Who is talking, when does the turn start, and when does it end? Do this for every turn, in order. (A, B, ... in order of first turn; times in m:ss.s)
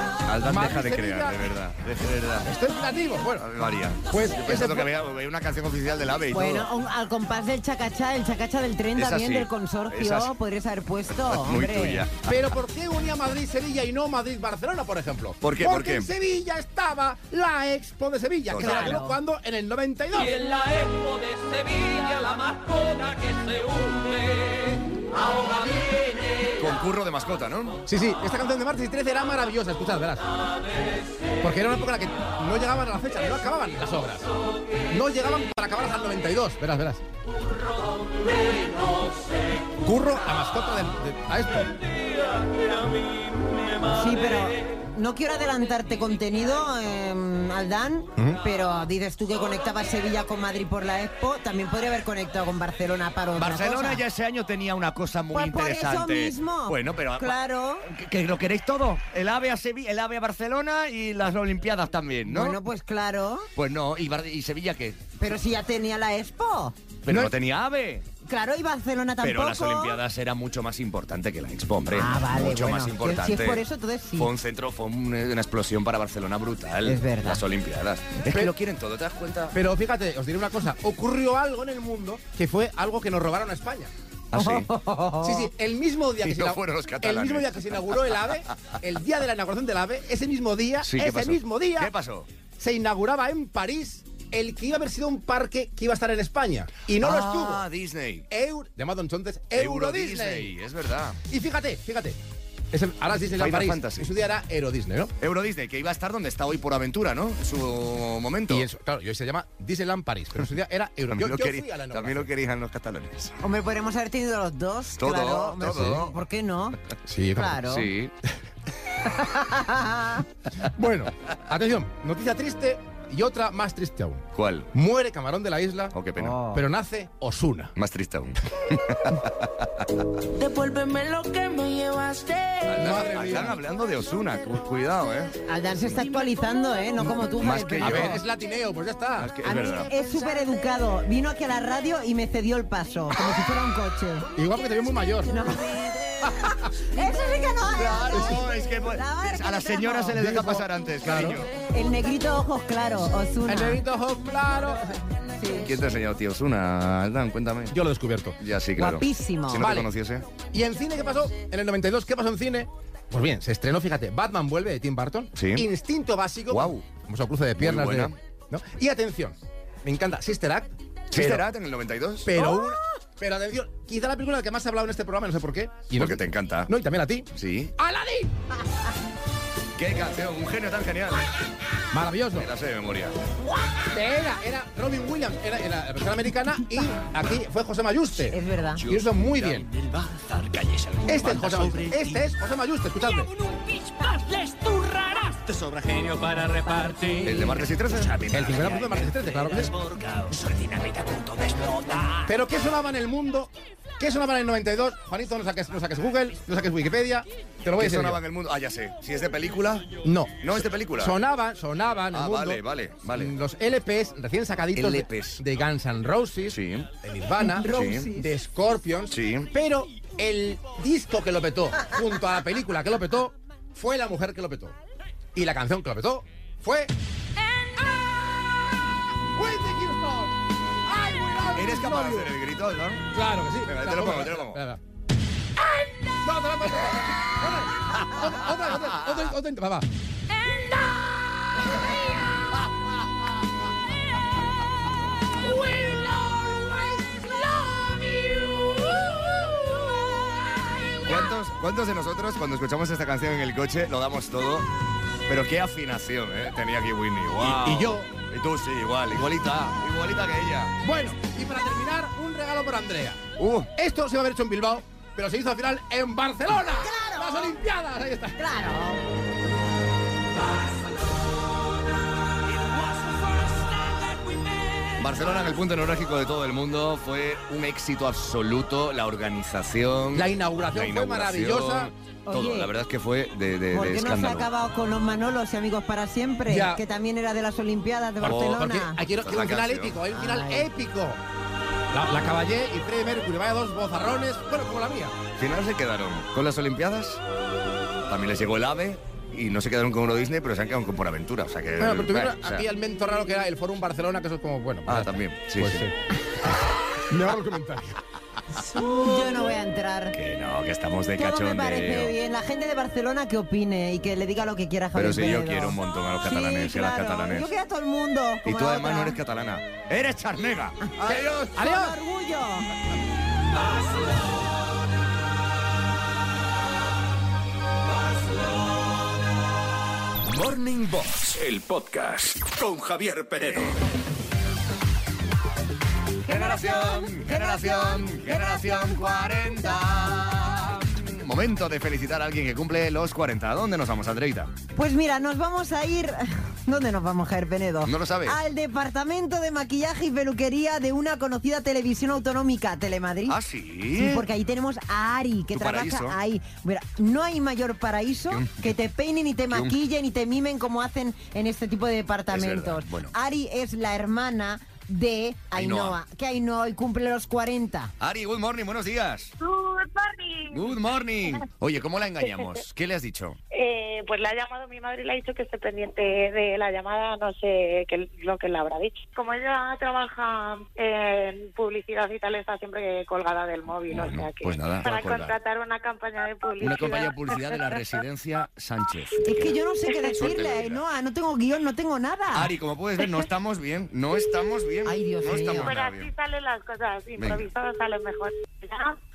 0:00.3-0:02.5 A
0:00.4-0:01.5 B
0:02.4-0:03.5 B
0:03.4-0:06.7 A
0:04.1-0:04.9 B
0:06.3-0:12.1 C
0:09.0-0:10.3 A
0:11.2-0:12.4 A
0:12.2-0:20.3 B
0:15.4-0:16.1 A
0:18.5-0:19.0 A
0:18.6-0:19.1 C
0:20.1-0:24.8 D
0:26.6-0:27.8 A
0:27.9-0:30.2 B
0:31.4-0:34.2 B
0:34.9-0:37.0 B
0:39.8-0:41.8 B
0:43.9-0:54.0 C
0:53.3-1:02.6 A
0:55.3-0:57.9 C
1:02.2-1:03.5 C
1:03.6-1:05.0 A
1:05.2-1:06.7 C
1:07.0-1:08.0 A
1:08.2-1:10.0 C
1:09.2-1:13.6 A
1:11.9-1:14.3 C
1:14.2-1:19.6 A
1:16.8-1:17.4 C
1:19.5-1:23.9 B
1:24.3-1:24.7 A
1:24.3-1:25.5 C
1:25.2-1:31.9 B
1:26.2-1:28.8 A
1:30.8-1:32.3 A
1:32.6-1:37.6 B
1:37.0-1:38.2 A
1:38.3-1:40.5 B
1:39.5-1:41.2 A
1:41.3-1:42.2 B
1:42.7-1:45.1 B
1:43.2-1:44.1 A
1:45.2-1:48.6 A
1:48.5-1:52.3 B
1:51.1-1:53.4 A
1:53.4-1:56.8 C
1:55.0-1:56.2 A
1:57.1-1:57.6 B
1:57.3-1:57.9 C
1:57.6-1:58.1 A
1:59.0-2:00.2 C
2:00.6-2:05.9 B
2:04.3-2:04.7 A
2:05.9-2:06.4 A
2:06.2-2:06.6 C
2:06.5-2:07.7 B
2:07.8-2:10.0 A
2:10.4-2:13.0 E
2:12.6-2:15.3 A
2:12.8-2:13.6 B
2:15.5-2:18.2 C
2:17.4-2:18.2 A
2:17.8-2:19.3 B
2:19.2-2:19.9 A
2:19.4-2:24.3 C
2:24.4-2:25.3 B
2:25.3-2:30.2 C
2:26.3-2:26.5 B
2:27.6-2:31.5 A
2:30.2-2:31.4 B
2:31.7-2:33.8 C
2:33.4-2:35.0 B
2:35.4-2:35.7 C
2:35.6-2:37.8 A
2:37.7-2:38.3 B
2:38.4-2:40.3 A
2:38.8-2:39.6 C
2:39.6-2:39.9 B
2:40.4-2:51.4 B
2:45.3-2:45.6 A
2:46.5-2:46.8 A
2:47.6-2:48.1 A
2:51.1-2:52.4 A
2:52.2-2:58.3 B
2:55.9-2:56.7 A
2:57.3-2:57.7 A
2:59.8-3:01.3 A
3:01.9-3:02.5 B
3:02.3-3:03.2 A
3:03.9-3:09.7 B
3:08.2-3:08.8 C
3:08.8-3:12.2 A
3:11.1-3:13.3 B
3:13.4-3:17.6 D
3:17.2-3:22.3 A
3:18.3-3:19.7 B
3:22.3-3:28.2 B
3:27.7-3:29.9 A
3:30.0-3:32.6 B
3:30.4-3:31.2 A
3:32.1-3:33.3 A
3:33.1-3:44.7 B
3:34.7-3:35.4 A
3:36.5-3:36.9 A
3:37.4-3:38.3 C
3:37.6-3:38.1 A
3:39.1-3:39.5 A
3:45.3-3:46.9 B
3:47.9-3:48.7 B
3:49.3-3:52.3 B
3:51.5-3:53.1 A
3:53.1-3:54.8 B
3:53.6-3:54.6 A
3:56.1-3:59.8 B
4:11.0-4:14.7 A
4:15.3-4:20.7 A
4:17.4-4:18.0 B
4:20.8-4:23.2 B
4:23.4-4:23.7 A
4:23.8-4:28.3 B
4:26.7-4:27.6 C
4:28.4-4:29.0 C
4:35.0-4:44.5 A
4:40.1-4:41.9 B
4:42.2-4:42.7 C
4:43.7-4:49.0 C
4:46.5-4:46.8 B
4:48.2-4:51.2 B
4:48.2-4:50.0 A
4:50.1-4:50.7 C
4:51.9-4:55.2 B
4:55.4-4:57.2 A
4:58.1-5:02.6 A
5:01.8-5:05.9 B
5:04.8-5:05.9 A
5:07.1-5:08.0 B
5:08.6-5:10.2 C
5:10.1-5:12.1 A
5:11.2-5:19.2 C
5:14.9-5:17.5 A
5:18.4-5:21.5 A
5:20.9-5:22.7 C
5:21.0-5:21.9 B
5:30.3-5:33.8 F
5:36.2-5:40.7 C
5:36.3-5:44.5 A
5:44.7-5:53.4 C
5:47.8-5:48.4 A
5:53.3-5:54.2 A
5:54.0-6:07.9 C
5:55.5-5:56.2 A
5:58.3-5:58.8 A
6:02.3-6:03.1 A
6:05.5-6:06.0 A
6:08.0-6:09.3 A
6:09.7-6:10.4 G
6:10.5-6:13.4 A
6:13.5-6:28.0 G
6:23.9-6:25.3 A
6:26.6-6:30.8 A
6:29.2-6:32.5 C
6:32.3-6:36.1 A
6:34.8-6:35.7 C
6:35.5-6:38.9 G
6:37.2-6:37.5 A